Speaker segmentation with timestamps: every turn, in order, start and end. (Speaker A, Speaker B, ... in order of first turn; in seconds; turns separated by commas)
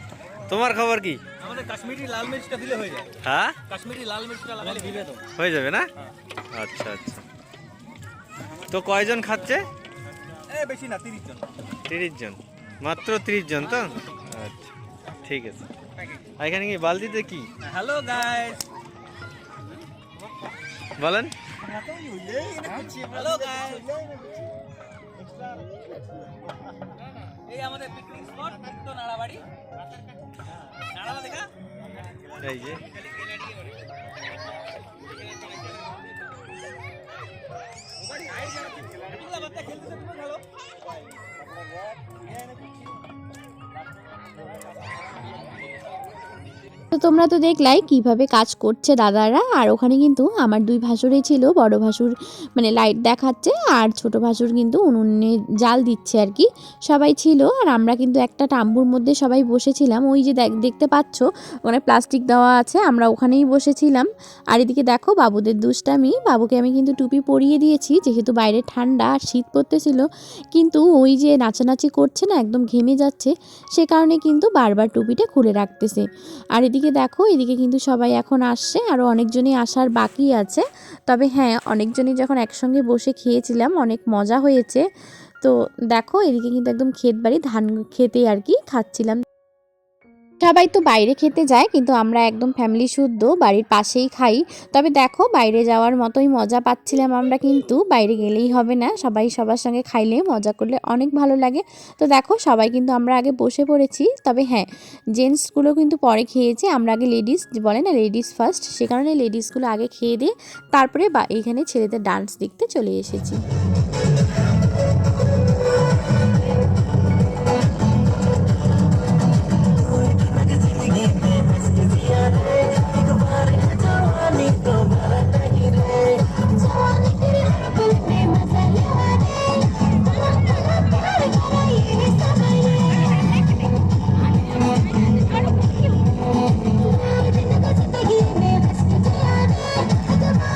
Speaker A: 0.5-1.2, Speaker B: 1.4-3.2, Speaker A: 3.2-3.6, Speaker B: 3.7-5.3, Speaker A: 5.3-5.9, Speaker A: 6.5-7.2, Speaker A: 8.7-9.7, Speaker B: 10.5-11.4, Speaker A: 11.9-14.7, Speaker A: 15.2-15.7, Speaker A: 16.4-17.5, Speaker B: 17.6-18.6, Speaker A: 21.0-21.3, Speaker B: 22.6-23.9, Speaker B: 27.5-29.4, Speaker B: 30.9-31.5, Speaker A: 32.4-32.8, Speaker B: 39.0-40.4, Speaker C: 46.9-84.8, Speaker C: 85.4-89.2, Speaker C: 90.4-113.4, Speaker C: 121.8-126.1